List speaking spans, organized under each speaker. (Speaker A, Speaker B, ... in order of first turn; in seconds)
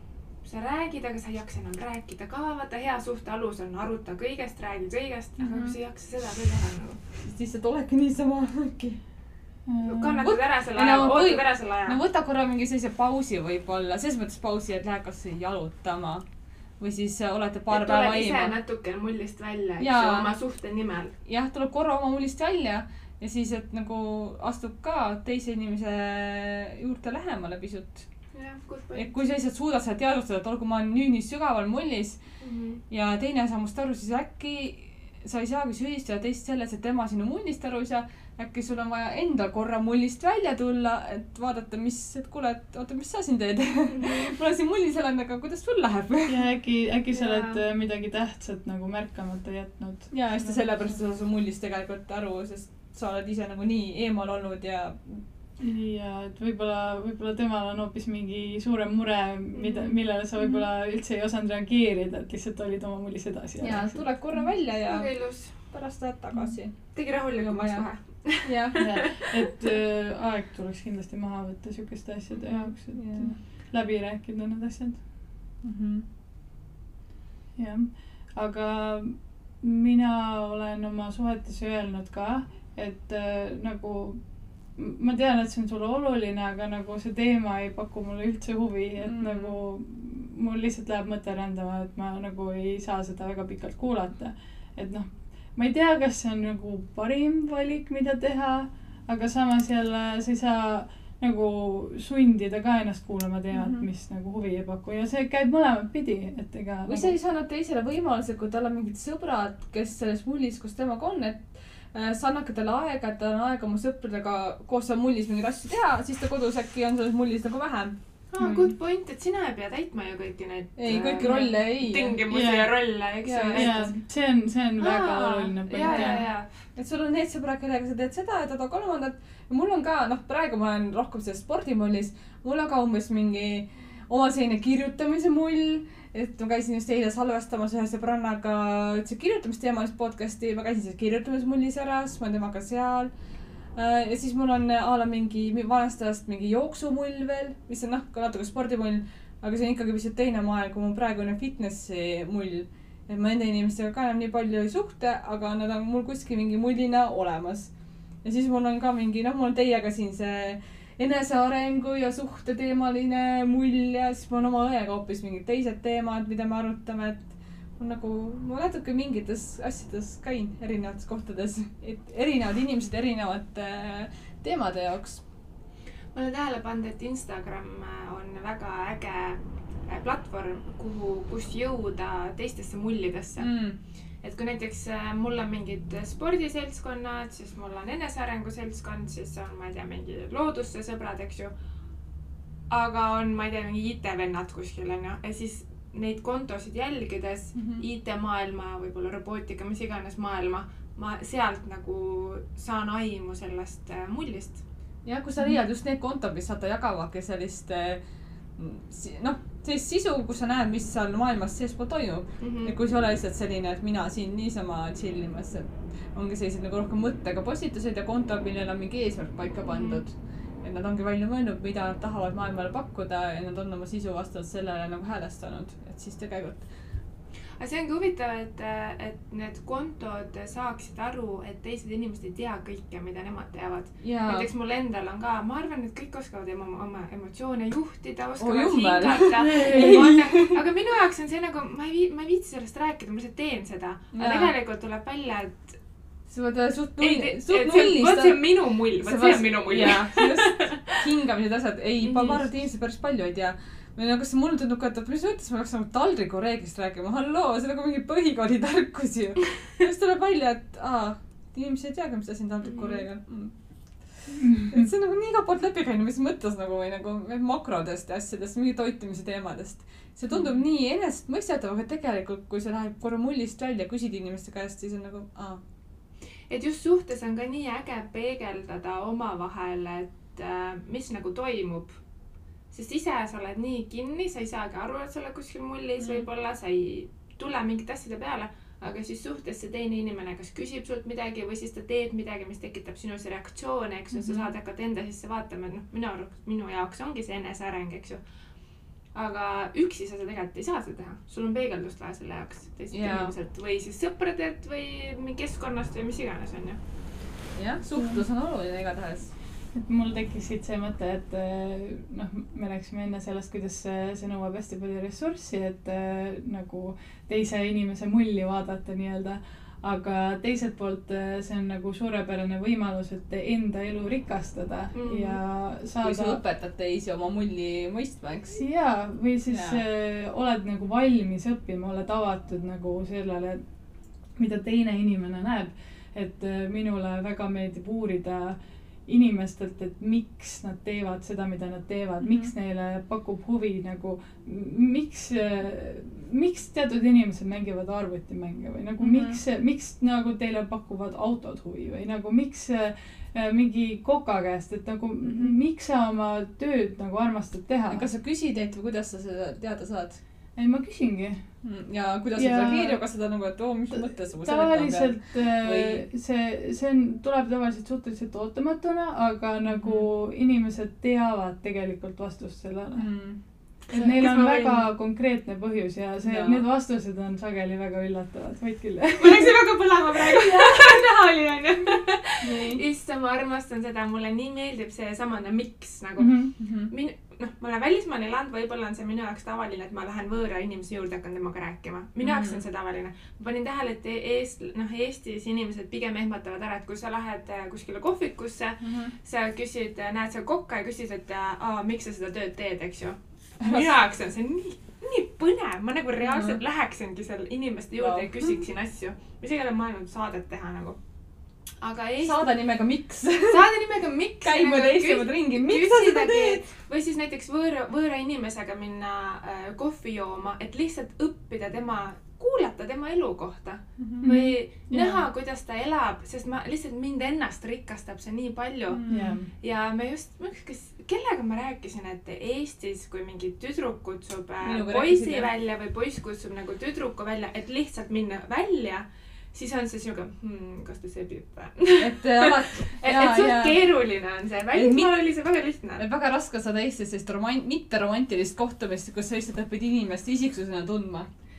Speaker A: 0.4-7.0, 9.8-12.0, 17.7-21.1, 28.3-29.1, 32.4-32.8, 47.1-47.6, 59.5-60.0, 64.8-65.5, 66.9-69.5, 118.3-123.9, 124.8-126.5, 176.1-183.5, 184.2-191.5, 192.7-204.6, 212.4-212.7, 219.7-220.0, 227.6-245.8, 247.0-250.9, 252.0-252.5, 262.6-263.1, 276.5-282.0, 282.7-298.2, 299.1-306.8, 324.9-325.4, 373.9-374.8, 379.2-411.0, 411.8-412.4, 413.5-429.0, 429.6-446.1
Speaker B: 5.4-5.8, 7.2-9.0, 10.2-16.2, 16.8-18.6, 19.8-20.3, 21.2-28.1, 28.9-32.2, 32.9-46.4, 50.1-55.2, 60.4-60.6, 63.6-69.1, 72.5-73.4, 75.6-76.0, 89.0-89.6, 103.5-103.8, 106.8-118.0, 120.8-122.2, 123.2-123.8, 125.8-143.1, 143.8-157.7, 158.2-167.2, 167.8-175.2, 183.4-183.8, 197.6-197.8, 205.1-208.0, 208.6-226.7, 234.0-234.5, 238.4-240.5, 244.1-244.5, 246.3-275.6, 294.1-294.5, 302.9-303.3, 307.6-309.3, 326.0-328.6, 329.5-329.8, 342.2-342.5, 349.0-349.4, 355.2-355.6, 357.9-360.2, 361.6-366.1, 369.7-370.1, 372.9-373.4, 376.2-376.6, 382.4-382.8, 386.6-386.9, 392.2-392.6, 398.8-399.1, 403.6-403.9, 406.2-406.6, 408.0-408.5, 412.2-413.7, 414.4-416.6, 424.0-424.3, 428.9-429.4, 434.6-435.5, 442.0-443.9, 444.7-445.1, 446.0-451.3
Speaker C: 9.7-10.2, 46.3-50.6, 55.6-64.5, 68.8-75.0, 77.6-84.2, 84.8-107.1, 118.4-118.7, 122.3-122.7, 123.5-126.2, 239.6-240.1, 264.4-264.9, 307.9-308.2, 309.7-326.4, 328.5-333.6, 334.4-358.1, 360.6-361.4, 362.4-363.0, 363.9-373.1, 373.9-379.6, 380.1-381.0, 386.2-386.5, 424.2-425.2, 429.1-429.5